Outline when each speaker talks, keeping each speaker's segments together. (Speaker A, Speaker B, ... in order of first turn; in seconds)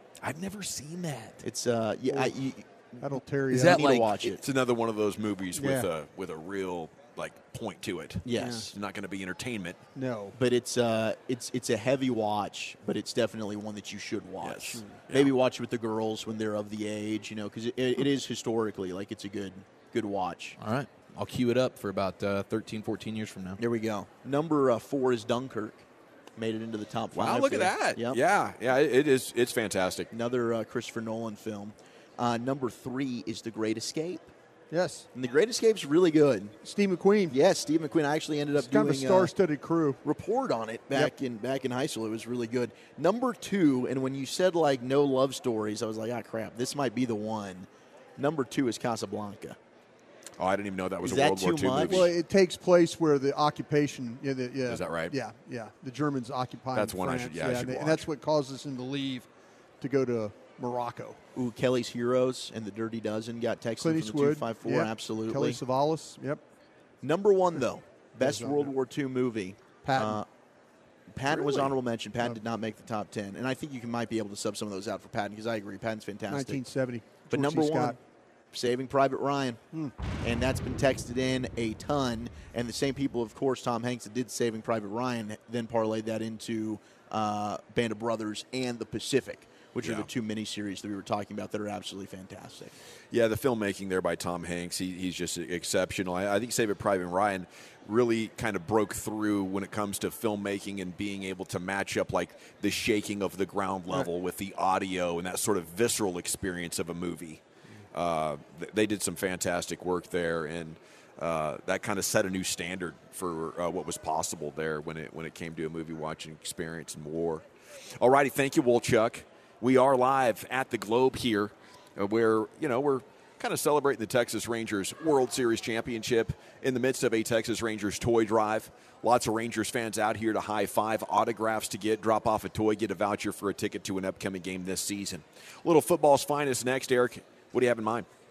Speaker A: 0.2-1.4, 3.5-4.1, 20.6-23.6, 27.2-28.0
Speaker B: 1.4-4.4, 8.2-8.7, 10.3-20.6, 23.6-25.8, 26.4-28.2, 30.1-34.3, 35.1-36.5, 37.3-39.3, 40.0-49.6, 51.0-52.1, 61.3-65.6, 67.0-70.2, 71.1-76.6, 77.3-78.0, 78.5-79.6, 80.2-92.7
Speaker C: 3.0-3.8, 5.5-5.9, 8.3-8.7, 9.9-10.3, 14.8-15.0, 34.7-35.1, 36.6-37.4, 38.5-40.0, 51.9-59.3, 59.8-61.2, 63.8-66.4, 68.2-68.7, 69.8-70.2, 71.3-72.4, 76.3-78.0
Speaker D: 4.3-9.8, 14.4-15.3, 27.2-30.1, 50.4-52.1, 54.6-55.1, 56.7-58.1, 89.8-90.1, 93.1-117.5, 118.0-138.1